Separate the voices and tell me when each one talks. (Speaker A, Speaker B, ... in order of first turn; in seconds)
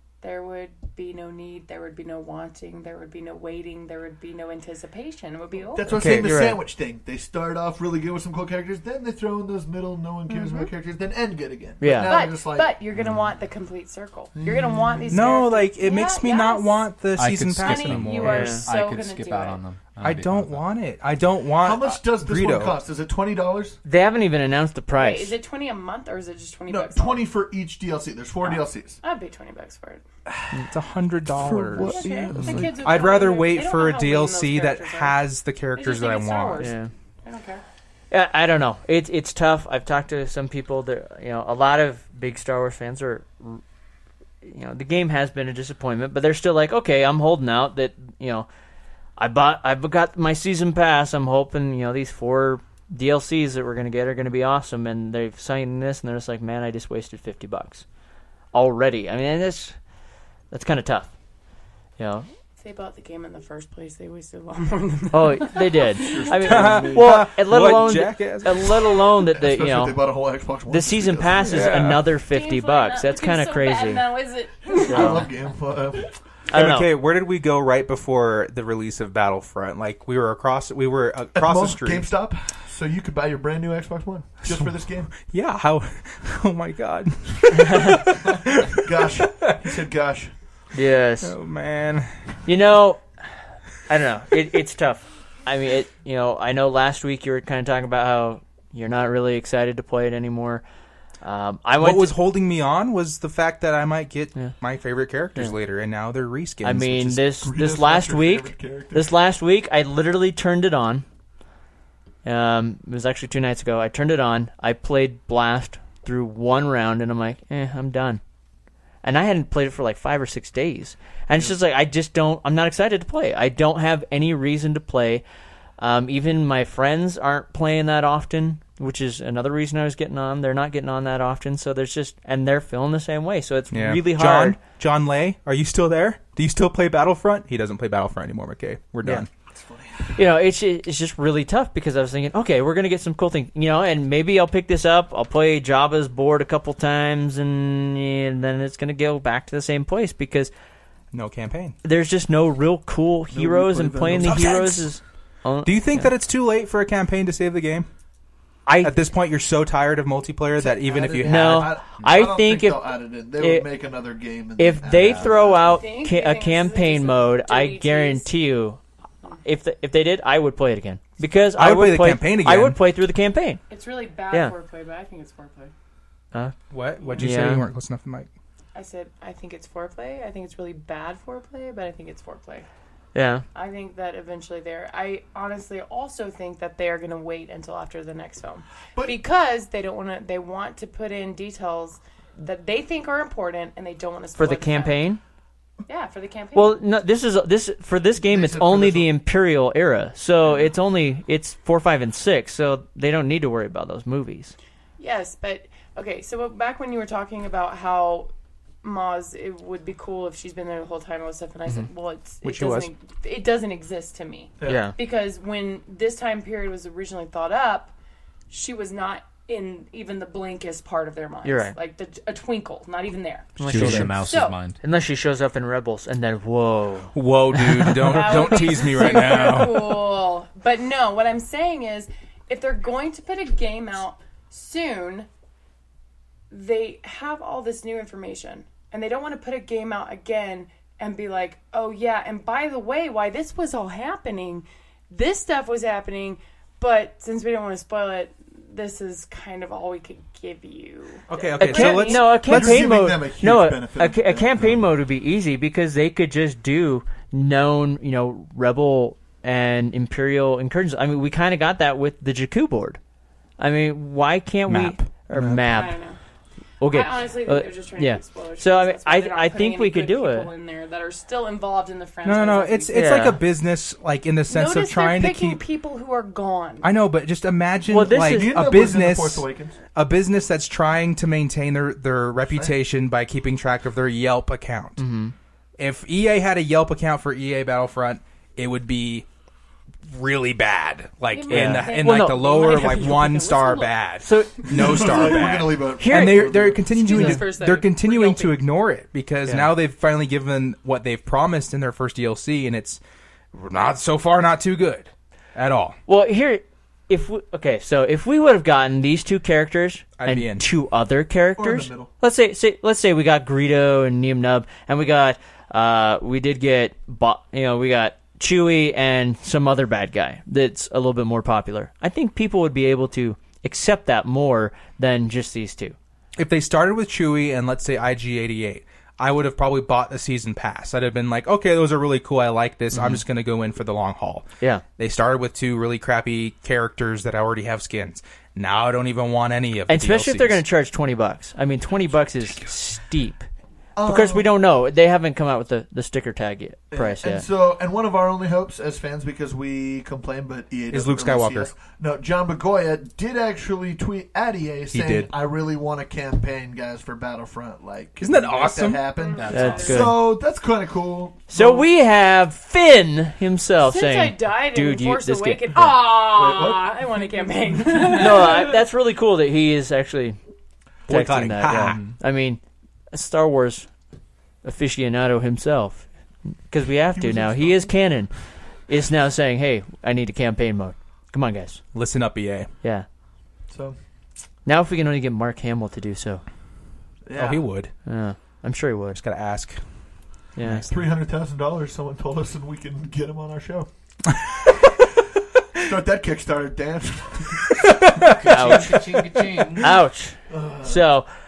Speaker A: 0.2-5.9, 10.3-10.7, 12.0-16.9, 17.6-19.6, 24.9-27.2, 28.4-30.0, 31.8-37.6, 62.6-66.5, 71.5-75.3, 165.6-168.3, 173.7-175.7, 177.0-177.3, 178.7-182.7, 183.5-195.1, 195.8-196.8, 205.0-208.3, 208.8-217.9, 218.5-224.6, 228.0-235.3, 236.5-252.3, 265.7-266.2, 266.8-273.0, 274.5-276.9, 291.3-294.0, 296.9-298.6, 359.1-360.1, 363.8-368.8
Speaker B: 5.7-12.8, 14.3-15.2, 21.6-23.8, 26.7-29.0, 30.3-30.6, 31.3-33.0, 65.9-67.2, 69.3-71.7, 74.7-76.1, 81.3-85.1, 88.8-90.3, 107.4-109.1, 139.5-140.2, 153.3-154.7, 160.6-165.8, 198.2-199.1, 252.4-254.8, 278.2-279.8, 294.7-297.2, 311.6-312.1, 343.9-344.5, 346.9-361.8, 366.1-367.1, 377.1-377.9, 383.7-384.0, 387.2-387.6, 390.9-393.9, 395.8-397.7, 400.5-401.1
Speaker C: 5.9-6.5, 15.1-18.6, 20.0-22.8, 30.7-36.7, 66.4-69.0, 71.5-72.1, 76.5-82.0, 84.4-89.8, 91.2-92.1, 101.8-107.2, 133.7-139.3, 151.1-151.8, 154.2-154.8, 155.6-157.9, 158.8-161.8, 171.6-172.8, 176.7-178.3, 212.4-212.9, 223.7-224.1, 227.1-230.1, 251.3-252.8, 264.7-265.9, 272.2-275.6, 276.8-285.0, 285.8-289.2, 290.1-303.0, 303.5-306.0, 310.2-310.7, 326.4-334.4, 335.0-340.6, 350.9-351.7, 354.9-355.3, 358.2-359.1, 371.1-372.0, 381.9-382.7, 387.3-387.9, 389.1-391.1, 397.6-398.7
Speaker D: 6.0-6.6, 11.8-12.2, 18.2-18.6, 23.8-25.3, 36.6-36.9, 38.1-43.6, 44.4-48.5, 49.2-57.8, 58.5-59.7, 60.5-61.1, 62.0-62.3, 65.1-70.0, 70.7-74.0, 74.9-75.2, 76.5-76.9, 87.5-88.0, 90.7-91.3, 92.5-93.0, 93.9-100.6, 101.2-102.2, 106.6-111.0, 112.2-118.2, 119.0-125.2, 125.8-134.6, 140.1-150.5, 151.8-156.1, 158.7-158.9, 161.2-163.7, 164.6-168.8, 169.4-173.6, 177.2-177.6, 183.1-183.4, 194.4-195.2, 196.5-204.5, 214.6-214.9, 221.4-221.7, 223.6-224.2, 224.7-228.6, 251.6-263.0, 263.6-265.9, 266.8-270.5, 272.9-273.4, 277.9-278.5, 285.0-285.3, 291.5-293.1, 294.2-295.4, 296.0-296.5, 299.4-299.7, 306.1-325.9, 332.9-333.2, 339.9-343.4, 344.0-347.4, 359.5-360.3, 361.5-365.9, 368.1-370.4, 371.1-372.6, 373.1-373.9, 374.6-376.1, 376.7-381.8, 384.6-386.4, 388.0-389.2, 390.6-390.9, 398.4-399.0, 399.8-401.3
Speaker E: 17.1-20.6, 223.6-224.8, 359.3-360.1, 371.8-372.1, 398.4-399.9